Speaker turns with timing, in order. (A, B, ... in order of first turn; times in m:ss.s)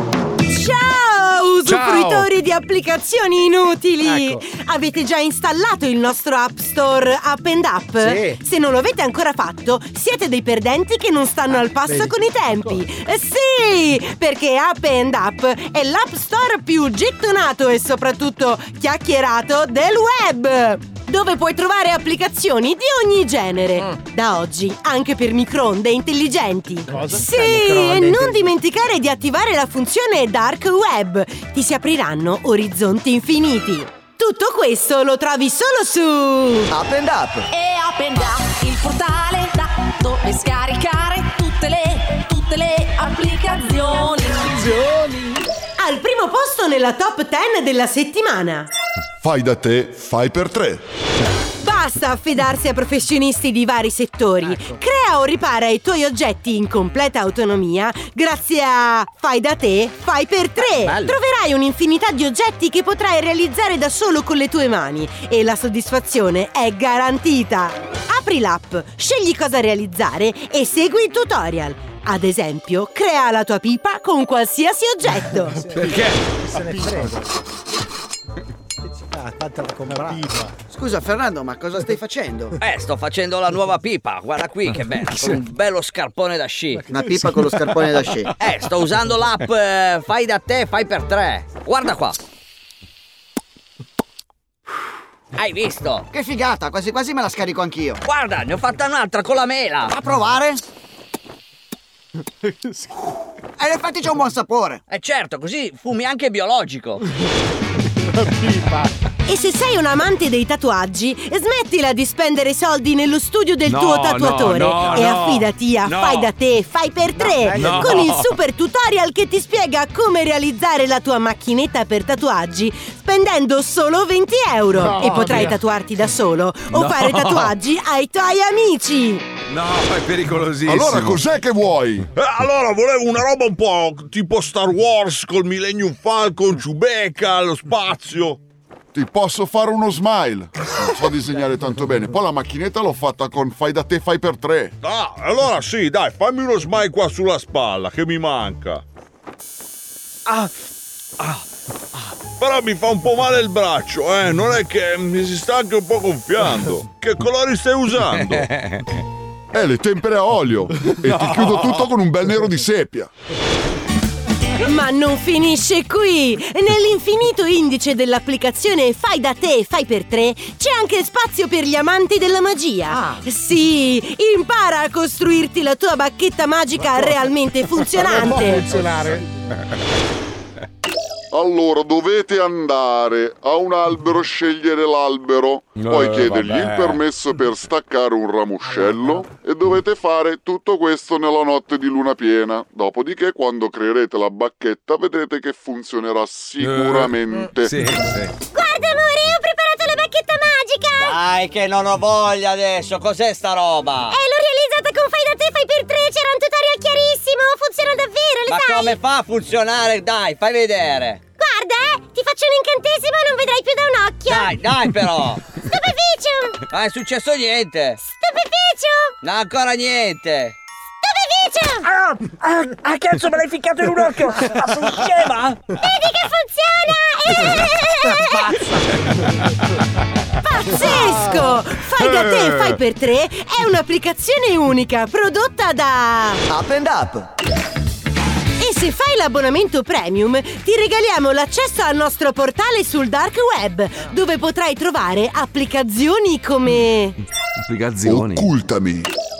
0:00.5-0:36.7 A
0:01.6-0:02.3 B
0:27.0-0:27.6 C
0:36.7-0:37.5 D
0:37.5-0:45.1 E
0:45.8-0:48.7 A
0:49.2-0:50.8 F
0:51.6-1:15.7 A
1:15.7-1:16.4 B
1:16.5-1:17.2 C
1:19.1-1:20.5 C
1:20.7-1:22.5 D
1:22.6-1:26.8 G
1:26.9-1:28.3 D
1:28.4-1:32.2 G
1:35.3-1:36.1 G
1:36.1-1:38.0 D
1:38.0-1:39.9 G
1:39.9-1:40.6 D
1:43.6-1:44.8 D
1:44.9-1:47.0 G
1:49.3-2:09.3 A
1:53.6-1:55.5 B
1:55.8-1:56.3 G
1:57.5-1:58.3 B
2:06.7-2:07.5 B
2:09.5-2:11.2 B
2:10.6-2:12.0 F
2:12.2-2:18.4 H
2:18.9-2:24.7 F
2:24.8-2:28.8 H
2:32.2-2:38.5 H
2:39.5-2:43.1 F
2:41.0-2:41.9 B
2:44.6-2:58.8 A
2:58.5-2:59.2 C
3:01.3-3:17.8 F
3:05.8-3:07.0 B
3:16.6-3:18.3 B
3:18.5-3:21.2 A
3:21.0-3:24.2 G
3:24.1-3:29.0 A
3:28.5-3:31.2 G
3:31.4-3:34.5 A
3:34.3-3:35.5 G
3:35.6-3:36.6 A
3:36.7-3:38.0 G
3:38.0-3:39.2 A
3:39.2-3:40.5 G
3:41.0-3:41.9 A
3:41.8-3:45.6 G
3:45.7-3:48.5 A
3:48.2-3:49.0 D
3:50.4-3:56.4 A
3:56.5-3:57.3 D
3:58.6-4:07.2 A
4:07.6-4:08.5 B
4:08.0-4:09.1 F